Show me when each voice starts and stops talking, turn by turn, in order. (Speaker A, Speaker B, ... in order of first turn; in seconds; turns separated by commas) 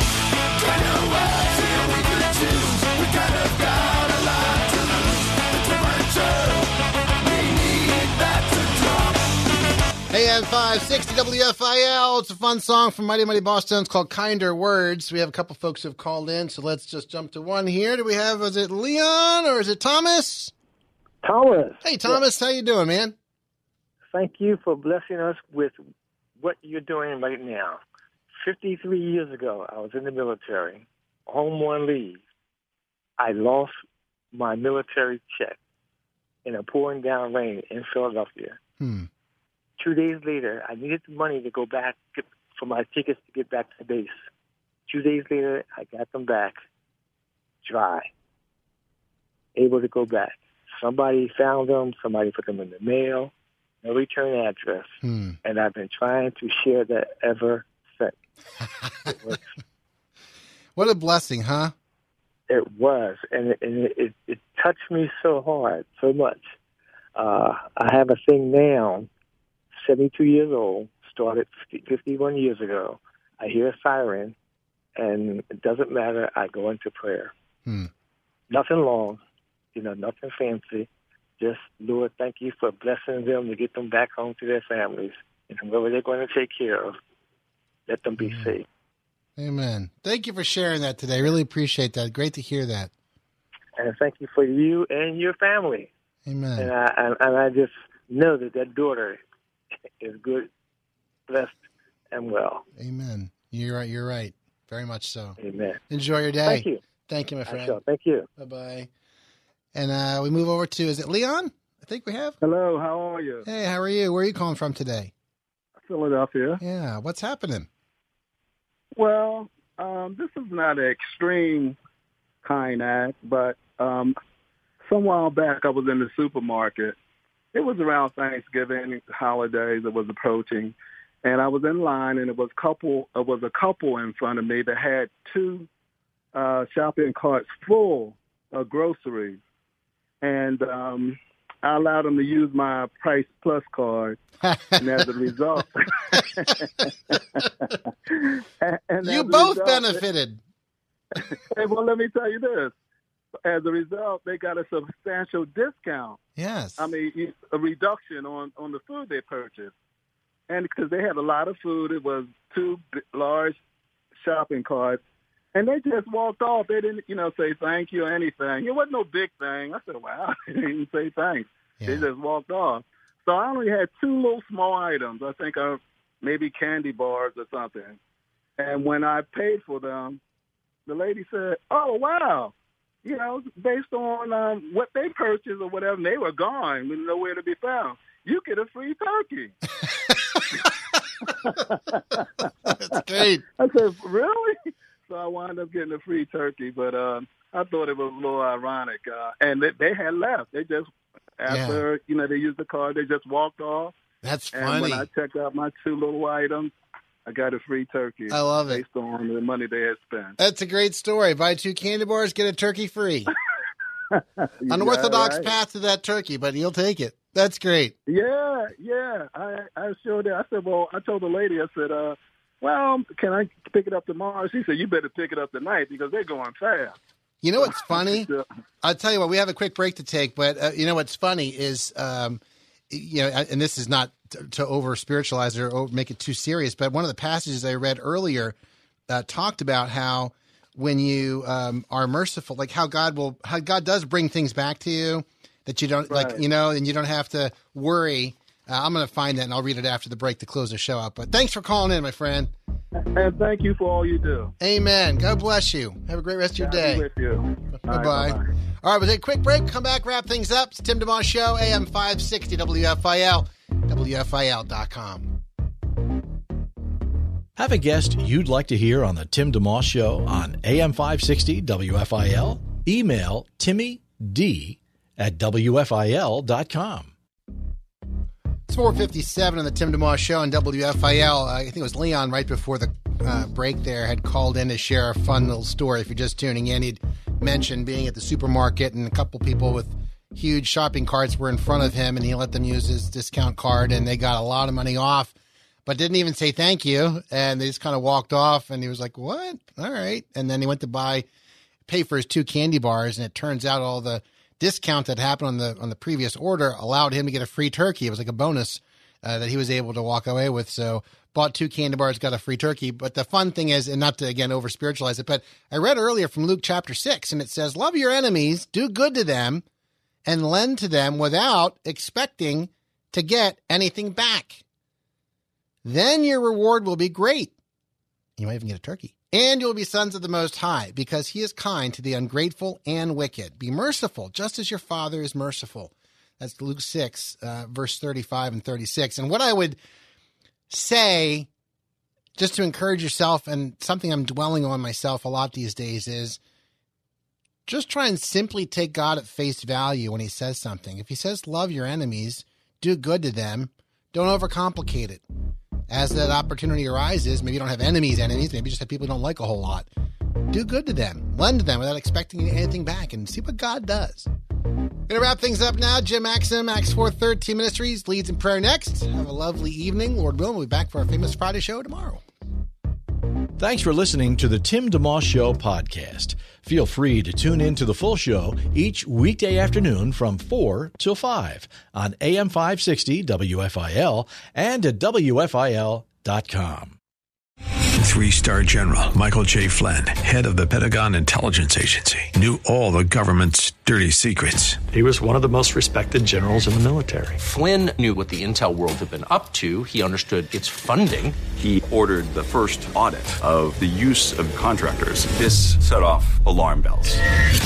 Speaker A: 0.6-6.7, Speaker A: 7.2-9.1, Speaker B: 10.1-20.5, Speaker C: 21.2-22.2, Speaker B: 21.8-23.1, Speaker C: 24.1-25.8, Speaker C: 26.4-27.8, Speaker C: 28.4-32.2, Speaker C: 33.2-33.7, Speaker C: 34.3-35.6, Speaker C: 36.5-38.6, Speaker B: 38.8-39.1, Speaker C: 39.8-44.2, Speaker C: 44.9-46.6, Speaker C: 47.6-48.1, Speaker C: 49.6-58.2, Speaker B: 55.0-55.4, Speaker C: 59.1-59.4, Speaker B: 60.8-61.7, Speaker C: 62.5-66.5, Speaker C: 67.2-69.1, Speaker C: 69.8-74.3, Speaker C: 75.0-77.3, Speaker C: 78.5-79.2, Speaker C: 79.7-87.0, Speaker C: 87.9-88.7, Speaker B: 88.2-88.5, Speaker B: 89.4-92.9, Speaker C: 93.8-95.9, Speaker B: 96.3-96.7, Speaker C: 96.6-99.2, Speaker C: 100.0-100.5, Speaker C: 101.3-101.6, Speaker C: 102.1-102.7, Speaker B: 102.8-105.4, Speaker C: 105.4-105.8, Speaker B: 105.9-107.8, Speaker C: 106.5-106.8, Speaker C: 107.5-108.3, Speaker B: 108.4-108.9, Speaker B: 109.7-112.4, Speaker D: 112.4-113.4, Speaker B: 113.5-115.1, Speaker D: 115.8-116.6, Speaker B: 116.6-117.7, Speaker D: 119.0-121.8, Speaker D: 122.4-124.2, Speaker D: 124.8-127.0, Speaker D: 127.5-135.7, Speaker D: 136.3-139.4, Speaker D: 140.2-144.2, Speaker B: 144.5-144.9, Speaker D: 144.8-150.0, Speaker B: 149.0-150.4, Speaker D: 151.2-152.7, Speaker D: 153.4-156.2, Speaker B: 156.4-156.9, Speaker D: 156.8-159.7, Speaker D: 160.5-163.6, Speaker D: 164.2-165.0, Speaker D: 165.6-178.0, Speaker B: 171.8-172.1, Speaker D: 178.6-180.2, Speaker D: 180.9-189.5, Speaker D: 191.3-192.4, Speaker B: 192.7-193.4, Speaker D: 193.6-194.6, Speaker D: 195.1-203.9, Speaker B: 201.5-201.8, Speaker B: 204.2-205.1, Speaker D: 204.5-206.7, Speaker D: 207.3-210.4, Speaker B: 208.3-208.8, Speaker B: 210.4-213.3, Speaker D: 214.1-215.5, Speaker B: 214.7-217.9, Speaker D: 218.1-226.9, Speaker B: 227.4-228.3, Speaker D: 227.6-228.4, Speaker B: 228.8-238.6, Speaker B: 239.1-252.5, Speaker D: 246.1-246.4, Speaker D: 253.2-254.5, Speaker B: 254.6-257.1, Speaker D: 256.6-258.5, Speaker B: 257.9-265.3, Speaker E: 267.6-277.1, Speaker B: 278.7-295.4, Speaker B: 295.9-301.3, Speaker B: 301.9-319.6, Speaker B: 320.3-324.6, Speaker B: 325.8-327.5, Speaker B: 328.4-339.8, Speaker B: 340.7-341.5, Speaker B: 342.4-346.4, Speaker B: 347.7-355.2, Speaker B: 355.9-359.9, Speaker B: 360.5-364.3, Speaker B: 365.1-372.2, Speaker E: 373.6-387.0, Speaker F: 388.0-394.9, Speaker A: 394.9-397.3, Speaker G: 397.4-401.4, Speaker H: 401.6-407.2